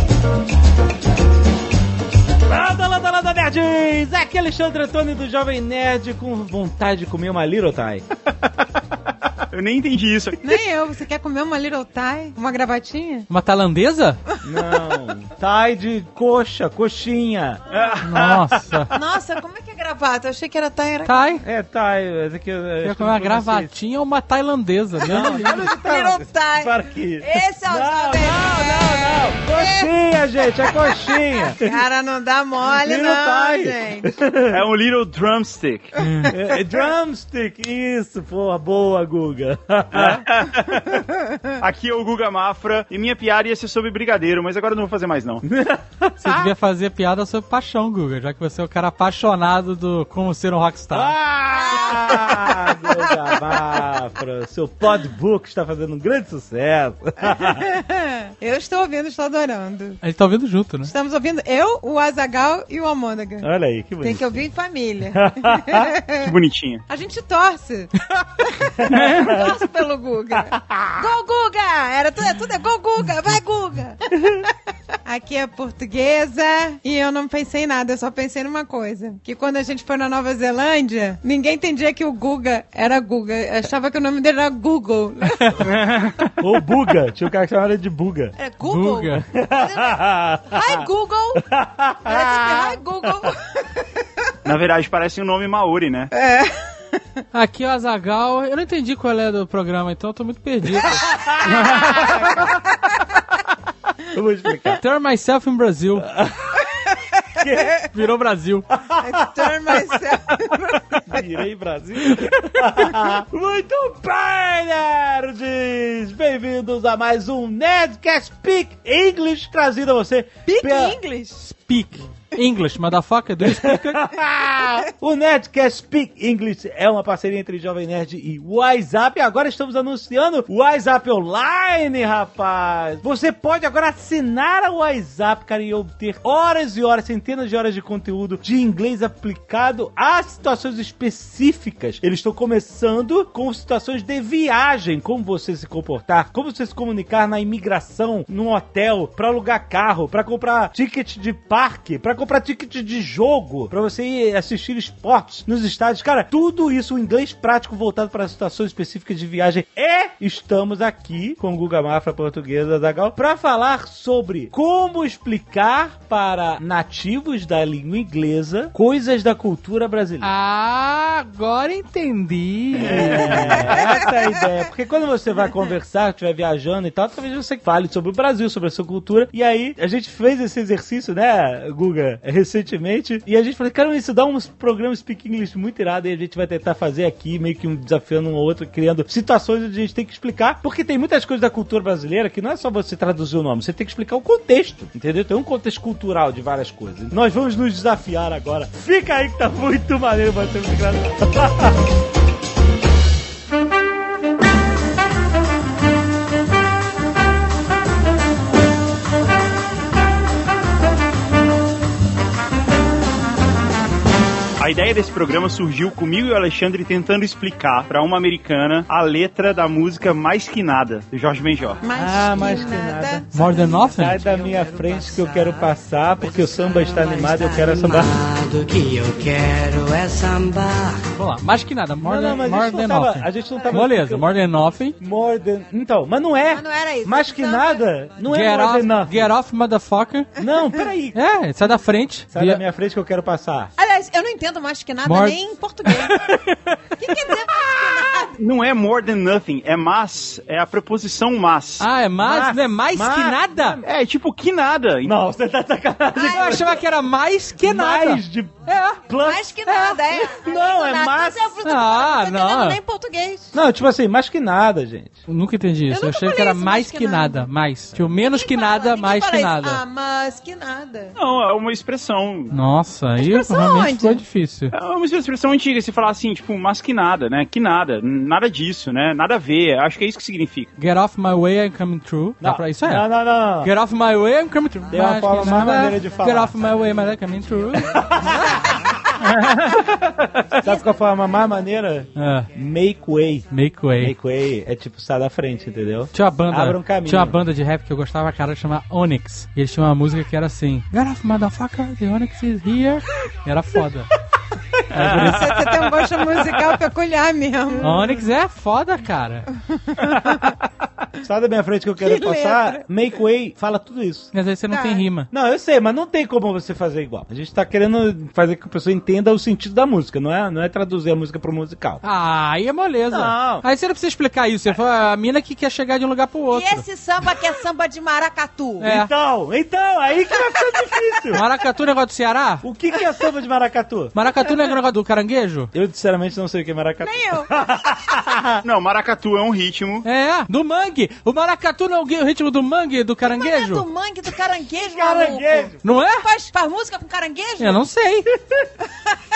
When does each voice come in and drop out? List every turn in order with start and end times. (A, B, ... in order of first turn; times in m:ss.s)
0:02.5-0:08.1 A
0:09.5-0:10.4 B
0:10.4-0:13.3 C
0:13.3-0:14.2 D
0:14.4-0:17.6 A
0:17.7-0:18.3 B
0:18.0-0:18.9 D
0:18.2-0:18.8 A
0:18.9-0:21.3 C
0:21.1-0:21.4 D
0:21.4-0:23.7 A
0:22.8-0:25.6 D
0:25.0-0:31.8 A
0:25.1-0:29.9 C
0:30.7-0:34.1 C
0:32.7-0:34.7 A
0:34.5-0:36.0 B
0:36.0-0:36.3 D
0:36.3-0:40.8 A
0:39.9-0:40.9 B
0:41.6-0:45.4 B
0:45.4-0:46.5 A
0:46.2-0:51.2 D
0:50.9-0:57.7 A
0:51.5-0:53.8 C
0:57.3-1:00.0 C
1:00.0-1:00.9 D
1:00.9-1:03.5 C
1:03.4-1:04.4 A
1:04.0-1:06.3 C
1:05.1-1:05.9 A
1:06.2-1:06.8 B
1:06.9-1:14.5 C
1:08.6-1:09.5 A
1:08.9-1:09.3 B
1:10.5-1:11.0 A
1:15.0-1:25.7 C
1:25.6-1:26.3 B
1:26.4-1:28.3 A
1:28.4-1:31.4 C
1:28.6-1:29.2 D
1:29.3-1:33.3 A
1:32.0-1:33.5 C
1:34.4-1:36.1 B
1:36.1-1:36.7 C
1:37.3-1:41.2 D
1:40.9-1:42.6 A
1:41.4-1:43.1 C
1:41.5-1:41.8 B
1:44.1-1:44.8 A
1:44.8-1:46.1 D
1:46.0-1:46.7 A
1:46.8-1:47.8 C
1:47.4-1:47.8 A
1:47.9-1:48.7 D
1:48.7-2:01.0 A
1:49.0-1:51.2 C
1:52.2-1:52.9 D
2:00.5-2:01.4 C
2:01.4-2:04.1 D
2:03.4-2:50.3 A
2:50.2-2:53.7 D
2:52.8-3:21.8 A
2:52.8-2:53.7 B
3:34.6-3:41.8 B
3:41.8-3:43.4 C
3:42.0-3:48.2 A
3:43.3-3:44.3 D
3:44.2-3:51.1 E
3:51.2-3:55.0 D
3:52.0-3:54.4 A
3:55.0-3:59.3 A
3:56.5-3:57.9 C
3:58.3-4:00.3 D
4:00.4-4:01.2 A
4:01.1-4:02.6 D
4:02.3-4:03.7 A
4:03.8-4:06.2 C
4:05.1-4:06.8 D
4:07.0-4:08.4 C
4:08.4-4:11.9 B
4:11.8-4:13.8 D
4:12.2-4:13.9 A
4:13.8-4:15.1 B
4:15.0-4:16.8 A
4:16.2-4:16.6 C
4:16.2-4:19.0 D
4:17.6-4:21.6 A
4:19.2-4:23.6 C
4:21.6-4:22.8 D
4:23.5-4:25.2 A
4:25.3-4:29.8 D
4:25.9-4:27.5 C
4:28.1-4:31.2 C
4:31.2-4:32.6 B
4:32.5-4:34.7 D
4:33.2-4:34.2 C
4:34.7-4:40.7 B
4:40.8-4:48.1 D
4:42.4-4:43.7 A
4:44.9-4:46.6 A
4:47.8-4:53.5 A
4:48.3-4:48.5 C
4:50.6-4:50.9 C
4:52.2-4:52.5 D
4:53.5-4:54.2 D
4:54.0-4:57.4 A
4:56.1-5:04.1 D
5:04.9-5:05.7 D
5:05.0-5:05.4 B
5:05.0-5:05.2 A
5:05.1-5:08.2 C
5:07.8-5:09.5 D
5:09.9-5:10.5 C
5:11.2-5:14.3 A
5:12.0-5:12.8 C
5:14.3-5:15.3 D
5:14.7-5:15.0 C
5:15.3-5:22.0 A
5:22.0-5:26.8 D
5:23.1-5:23.6 A
5:26.5-5:28.9 C
5:28.8-5:29.1 D
5:28.8-5:31.4 A
5:31.3-5:32.6 D
5:32.6-5:34.1 A
5:34.2-5:35.7 D
5:35.7-5:38.6 A
5:37.0-5:37.5 C
5:38.6-5:40.0 B
5:40.0-5:43.9 D
5:43.3-5:47.8 C
5:44.9-5:45.8 A
5:45.8-5:46.3 D
5:47.6-5:48.3 D
5:48.9-5:49.2 C